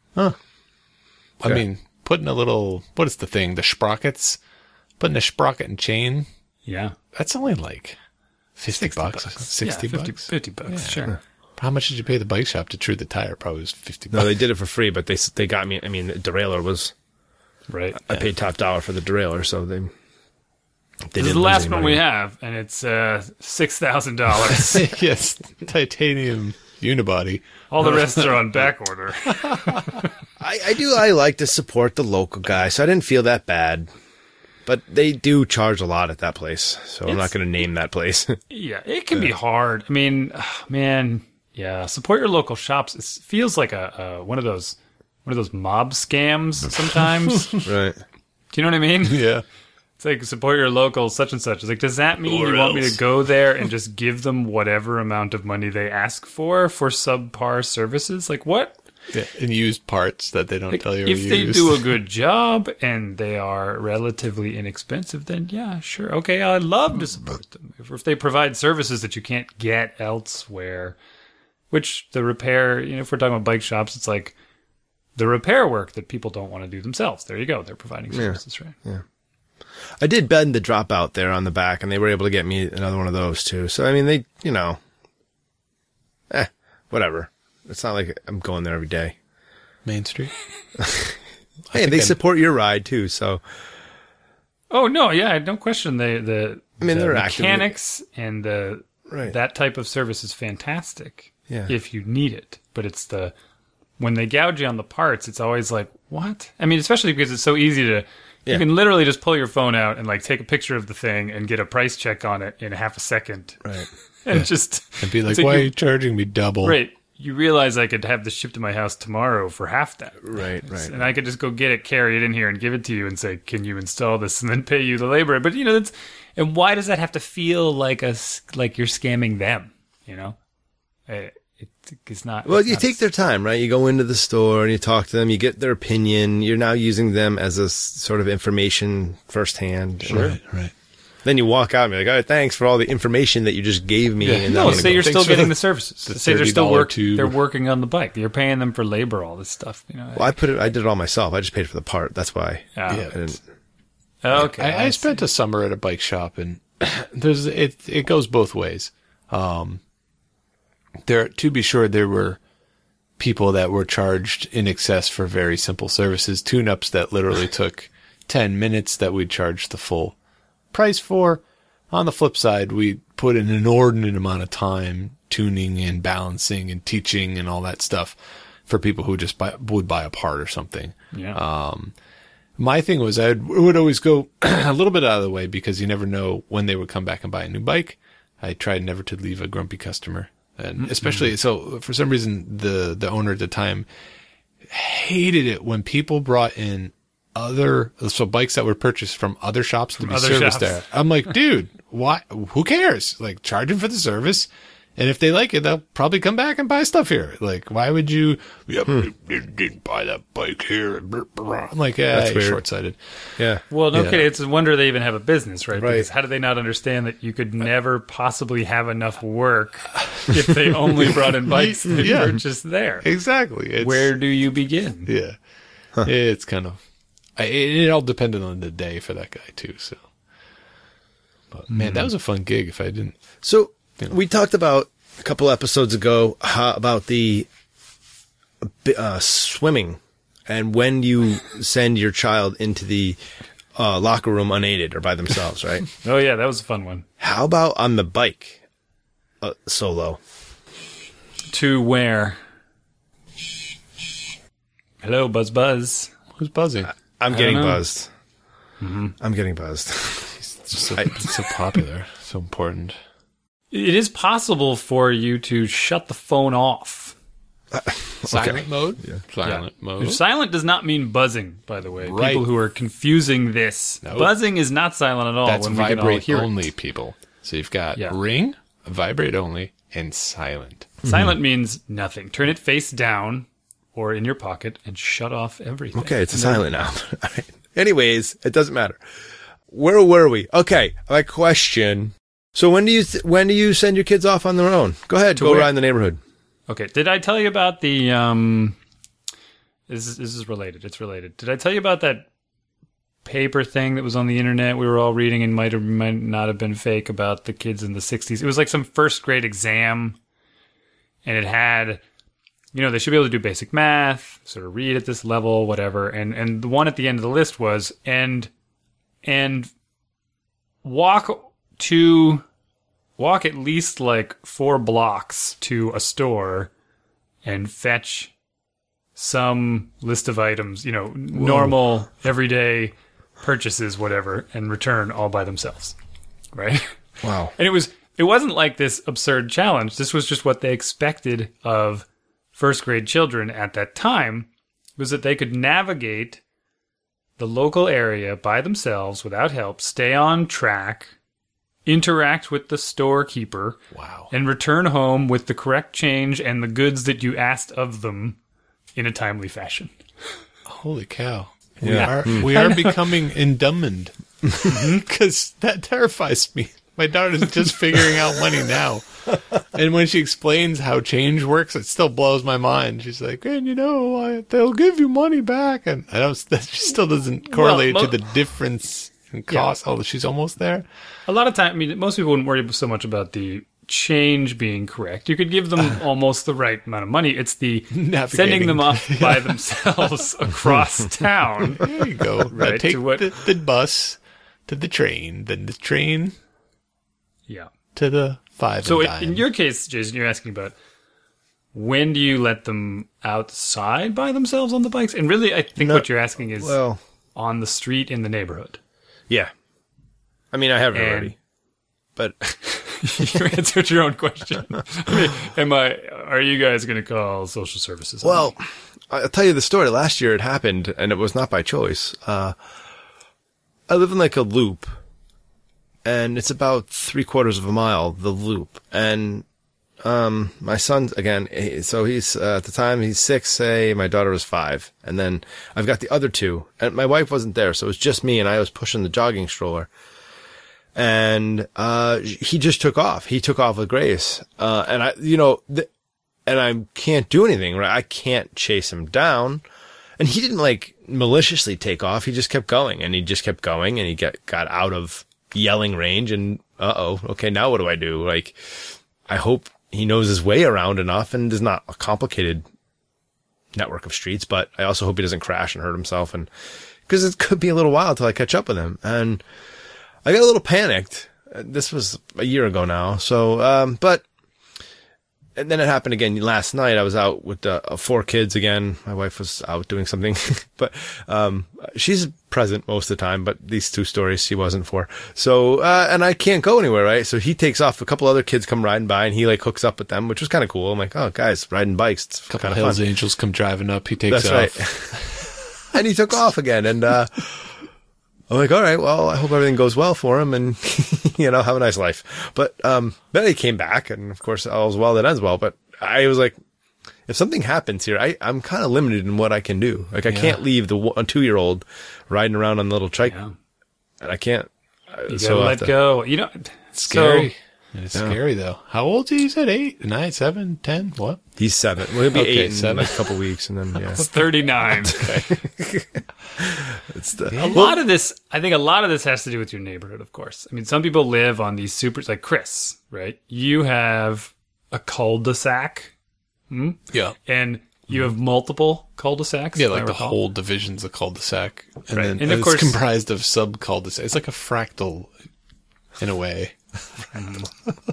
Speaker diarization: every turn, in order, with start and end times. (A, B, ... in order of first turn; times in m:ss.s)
0:01.4-0:04.4 A
0:05.0-0:06.3 A
0:06.6-0:07.0 B
0:07.1-0:08.0 A
0:08.6-0:14.4 A
0:08.7-0:11.1 B
0:14.1-0:16.9 C
0:17.7-0:18.0 B
0:18.0-0:19.9 C
0:21.1-0:22.0 C
0:21.2-0:24.9 B
0:24.6-0:28.4 A
0:27.7-0:30.0 B
0:29.4-0:30.0 A
0:30.4-0:33.9 C
0:34.6-0:38.4 C
0:37.0-0:37.3 B
0:38.5-0:47.5 B
0:47.0-0:47.7 A
0:47.6-0:48.0 C
0:48.5-0:49.2 B
0:49.0-0:49.4 A
0:50.0-0:58.8 B
0:52.3-0:53.0 A
0:59.1-1:01.9 A
1:00.7-1:11.0 B
1:11.7-1:14.3 B
1:15.2-1:18.8 B
1:18.1-1:19.0 C
1:20.0-1:24.8 C
1:26.3-1:29.1 C
1:29.8-1:30.3 A
1:30.8-1:31.2 C
1:31.7-1:32.2 A
1:31.7-1:33.4 C
1:34.7-1:43.3 B
1:36.8-1:37.7 C
1:39.1-1:39.3 C
1:44.0-1:53.6 B
1:54.2-1:55.7 B
1:55.0-1:56.8 A
1:56.6-2:10.4 B
2:00.2-2:00.9 C
2:11.1-2:13.0 B
2:12.4-2:20.4 C
2:20.1-2:20.7 A
2:21.2-2:25.1 C
2:24.2-2:27.3 A
2:24.5-2:30.4 B
2:30.2-2:33.4 C
2:32.7-2:33.1 B
2:32.9-2:33.2 A
2:34.2-2:35.2 B
2:34.3-2:39.8 A
2:41.0-2:42.4 A
2:43.2-2:50.1 A
2:50.7-2:58.1 A
2:58.7-3:01.9 A
3:01.1-3:01.4 B
3:02.6-3:13.8 A
3:10.8-3:11.3 B
3:14.7-3:33.0 A
3:20.0-3:20.8 B
3:32.1-3:32.6 C
3:33.7-3:43.0 B
3:33.9-3:34.2 A
3:35.7-3:36.1 C
3:40.0-3:40.2 A
3:41.1-3:42.4 A
3:43.0-3:44.1 A
3:43.8-3:45.1 B
3:45.1-3:45.4 A
3:46.0-3:46.8 A
3:47.4-3:50.0 A
3:51.5-3:53.2 A
3:53.4-3:57.5 C
3:58.6-4:03.2 C
4:03.8-4:05.8 C
4:06.0-4:07.0 B
4:07.2-4:08.6 C
4:09.4-4:10.2 C
4:11.5-4:12.4 B
4:15.0-4:16.1 B
4:16.4-4:16.9 A
4:17.2-4:18.1 C
4:17.3-4:17.8 B
4:18.8-4:19.1 B
4:19.2-4:20.4 C
4:20.5-4:23.0 A
4:20.9-4:21.3 C
4:23.7-4:27.1 B
4:27.7-4:29.1 C
4:28.3-4:30.2 A
4:29.4-4:36.5 B
4:32.0-4:32.5 A
4:34.0-4:34.3 A
4:35.4-4:41.0 A
4:41.0-4:46.7 B
4:45.9-4:49.0 C
4:49.7-4:56.2 C
4:55.4-4:55.7 B
4:56.7-4:58.8 B
4:59.9-5:02.2 B
5:03.2-5:10.2 B
5:11.2-5:12.0 B
5:12.7-5:18.5 B
5:19.2-5:19.7 B
5:20.8-5:22.4 B
5:23.2-5:26.7 B
5:27.4-5:28.3 B
5:29.2-5:35.9 B
5:36.5-5:37.0 B
5:37.2-5:37.5 C
5:37.5-5:46.4 B
5:47.4-5:51.1 B
5:51.8-5:53.8 B
5:53.9-5:54.3 A
5:54.3-5:58.4 B
5:59.0-5:59.9 B
6:00.7-6:20.8 A
6:01.8-6:02.4 C
6:01.9-6:03.0 B
6:04.6-6:05.0 B
6:17.5-6:18.1 B
6:21.3-6:31.9 B
6:27.9-6:29.6 A
6:31.8-6:36.3 A
6:32.5-6:33.3 B
6:37.9-6:39.4 A
6:38.8-6:40.7 B
6:41.7-6:46.8 B
6:45.8-6:47.0 C
6:47.3-6:48.8 B
6:50.5-6:51.3 C
6:50.9-6:51.3 B
6:52.2-6:52.6 C
6:52.6-6:58.5 B
6:58.2-7:02.5 C
7:03.9-7:04.9 C
7:06.0-7:09.4 C
7:10.0-7:19.9 C
7:20.9-7:25.9 C
7:26.4-7:29.6 C
7:30.2-7:42.6 C
7:43.7-7:46.5 C
7:47.1-7:49.4 C
7:50.2-7:54.2 C
7:55.6-8:13.0 C
8:12.5-8:15.3 A
8:14.3-8:15.2 C
8:15.9-8:17.8 C
8:18.5-8:26.5 C
8:27.3-8:33.4 C
8:30.3-8:30.6 A
8:33.3-8:33.5 B
8:34.2-8:35.9 C
8:35.3-8:37.5 B
8:37.0-8:41.4 A
8:41.6-8:44.2 C
8:42.3-8:43.2 A
8:44.1-8:45.3 B
8:45.0-8:45.5 A
8:45.0-8:48.0 C
8:47.5-8:48.0 A
8:47.6-8:56.1 B
8:56.7-9:00.4 B
8:59.8-9:05.3 A
9:02.4-9:03.0 B
9:06.2-9:07.3 A
9:07.3-9:07.7 B